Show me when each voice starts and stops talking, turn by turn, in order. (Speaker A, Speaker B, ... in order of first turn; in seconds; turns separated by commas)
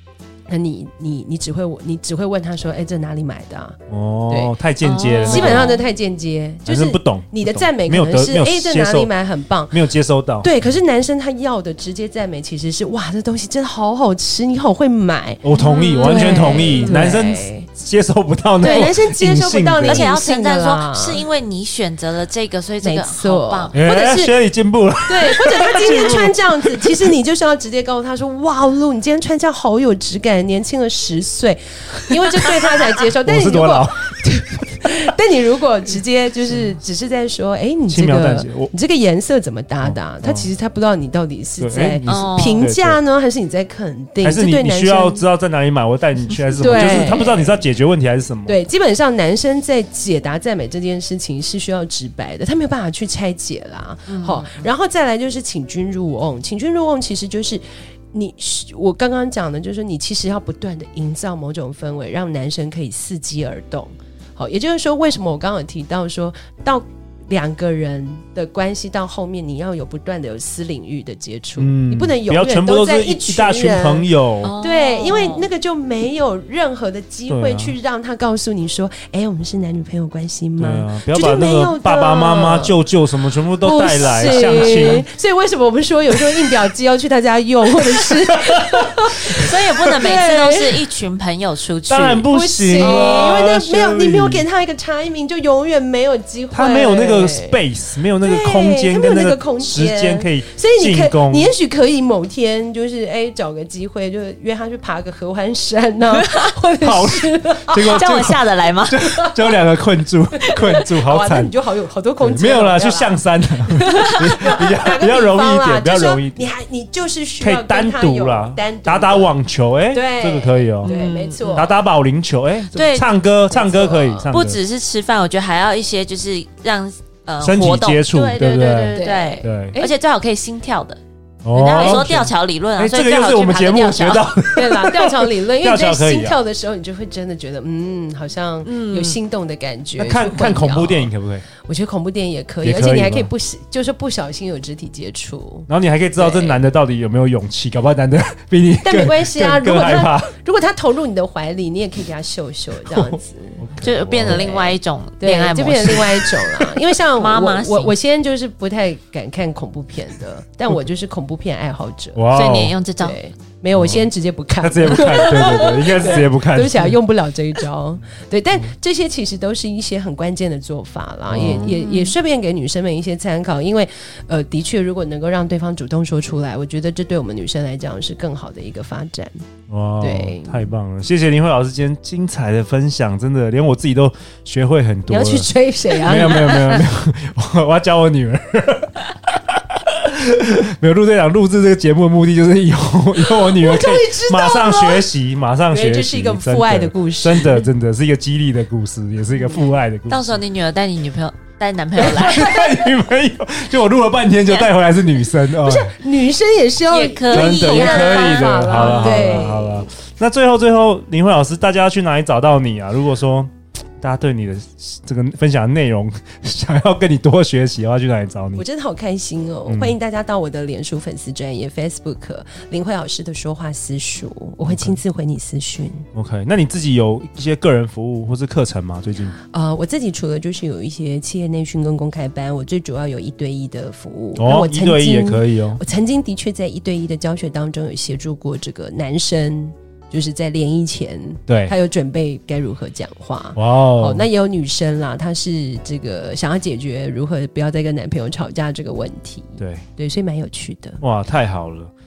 Speaker A: 0.5-3.8, Speaker B: 3.9-5.8, Speaker A: 4.3-4.5, Speaker C: 4.8-5.8, Speaker A: 5.2-9.8, Speaker B: 6.6-9.1, Speaker B: 9.7-10.5, Speaker A: 10.4-15.4, Speaker B: 15.4-20.1, Speaker C: 15.5-17.1, Speaker A: 16.0-17.7, Speaker A: 18.6-21.2, Speaker C: 18.6-18.9, Speaker C: 19.8-23.7, Speaker A: 22.8-24.3, Speaker B: 23.7-26.9, Speaker A: 25.1-45.2, Speaker B: 33.2-34.1, Speaker B: 37.9-38.7, Speaker B: 39.8-40.5, Speaker B: 41.6-43.0, Speaker C: 42.0-42.7, Speaker B: 44.2-48.6, Speaker A: 46.6-47.6, Speaker A: 48.5-82.8, Speaker C: 54.1-54.6, Speaker B: 71.6-74.5, Speaker C: 74.4-75.5, Speaker B: 77.3-77.7, Speaker B: 80.6-85.0, Speaker A: 83.6-90.8, Speaker C: 84.1-84.9, Speaker C: 89.3-93.4, Speaker B: 91.9-94.4, Speaker A: 92.3-97.6, Speaker B: 96.5-101.5, Speaker A: 98.2-108.1, Speaker B: 106.8-111.5, Speaker C: 107.7-109.0, Speaker A: 108.9-109.6, Speaker A: 110.4-119.3, Speaker B: 112.2-116.5, Speaker B: 117.4-121.0, Speaker A: 119.9-121.7, Speaker C: 120.8-121.7, Speaker B: 121.5-124.6, Speaker C: 122.7-123.1, Speaker A: 123.5-124.3, Speaker C: 124.3-134.3, Speaker B: 127.4-129.8, Speaker A: 128.9-129.9, Speaker B: 131.4-136.4, Speaker A: 131.7-132.0, Speaker A: 134.5-146.6, Speaker C: 138.6-139.2, Speaker B: 140.0-141.4, Speaker B: 142.6-143.3, Speaker B: 145.7-150.3, Speaker A: 148.8-153.6, Speaker B: 152.8-154.5, Speaker C: 153.8-156.3, Speaker A: 154.2-162.3, Speaker C: 157.2-157.9, Speaker B: 162.1-162.8, Speaker C: 162.3-163.2, Speaker A: 163.0-179.3, Speaker B: 163.7-164.1, Speaker B: 164.6-167.0, Speaker B: 171.3-171.7, Speaker C: 171.4-172.1, Speaker B: 179.7-200.4, Speaker A: 180.0-180.7, Speaker A: 185.1-186.8, Speaker A: 193.2-195.1, Speaker A: 195.7-197.7, Speaker C: 200.1-202.7, Speaker B: 202.0-205.9, Speaker A: 205.6-209.9, Speaker C: 206.9-209.5, Speaker B: 207.3-218.6, Speaker A: 218.6-226.1, Speaker B: 219.7-219.9, Speaker B: 224.6-225.0, Speaker B: 226.1-229.4, Speaker A: 229.5-251.0, Speaker B: 234.3-235.8, Speaker B: 241.5-241.7, Speaker B: 243.6-244.2, Speaker B: 249.6-249.8, Speaker B: 251.0-251.9